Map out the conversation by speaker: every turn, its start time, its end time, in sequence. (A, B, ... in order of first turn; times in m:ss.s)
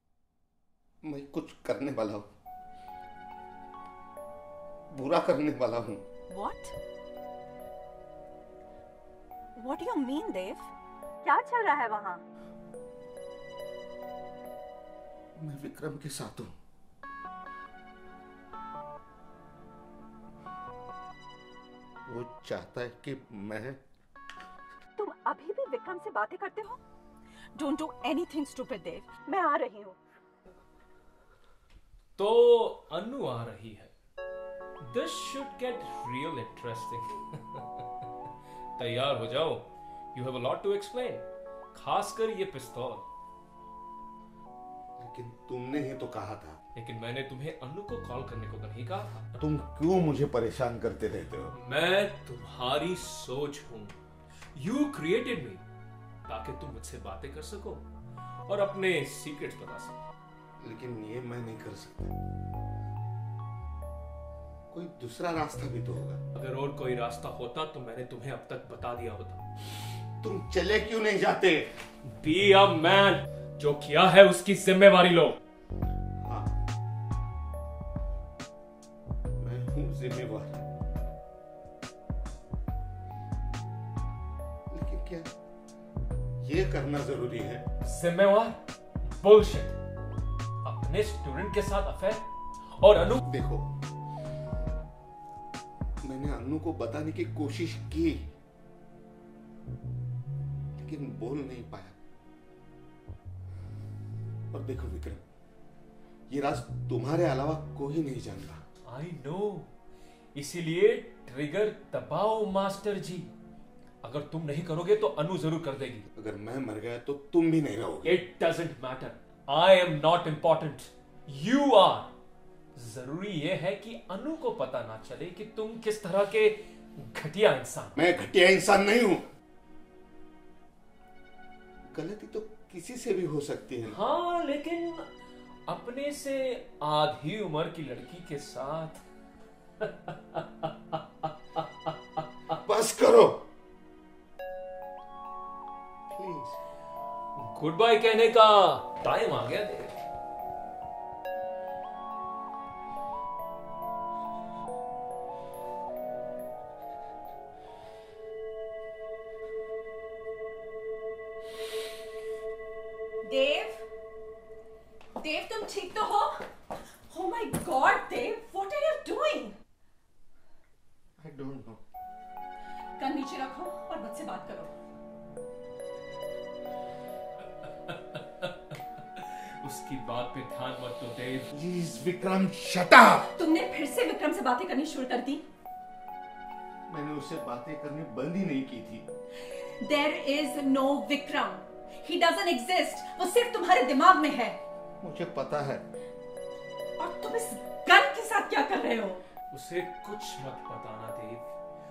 0:01.0-0:02.3 A
0:04.9-0:06.0 A
0:06.3-0:06.7 B
0:09.6-0:12.2 B
0:15.4-0:16.5 A
0:22.1-0:23.8 A
0:25.0-0:26.8 B
0:27.6-0:30.0 B
0:32.2-0:33.9 C
0:34.8-0:37.8 C
0:38.8-0:43.0 C
0:45.0-0:46.6 A
0:46.7-0:49.3 C
0:49.4-0:51.5 A
0:51.5-0:53.9 C
0:54.5-0:55.6 C
0:56.3-0:57.8 C
0:58.5-0:59.9 C
1:00.6-1:02.1 A
1:04.7-1:06.2 A
1:06.4-1:09.4 C
1:10.2-1:11.7 A
1:12.1-1:15.4 C
1:16.2-1:16.6 A
1:19.4-1:20.6 A
1:24.7-1:25.3 A
1:26.4-1:27.6 A
1:27.8-1:29.8 C
1:30.6-1:32.2 C
1:32.8-1:33.2 C
1:33.2-1:33.7 A
1:36.0-1:38.3 A
1:40.8-1:42.0 A
1:44.5-1:45.2 A
1:46.3-1:48.6 A
1:48.9-1:49.7 C
1:50.3-1:53.3 C
1:54.0-1:56.0 C
1:56.1-1:58.2 A
1:58.0-2:02.1 C
2:02.7-2:08.0 C
2:08.0-2:09.2 A
2:11.9-2:14.0 A
2:13.9-2:15.0 C
2:15.7-2:19.0 C
2:19.8-2:21.0 C
2:22.6-2:23.4 A
2:26.1-2:26.6 A
2:27.4-2:29.9 C
2:43.2-2:43.8 B
2:45.2-2:46.5 B
2:47.1-2:49.6 B
2:51.2-2:51.8 A
2:53.0-2:54.7 B
2:57.9-2:58.5 C
2:59.2-3:01.5 C
3:01.5-3:03.3 A
3:03.3-3:05.4 B
3:06.9-3:09.0 A
3:09.8-3:14.6 B
3:15.0-3:15.8 A
3:17.0-3:19.2 B
3:19.5-3:21.5 C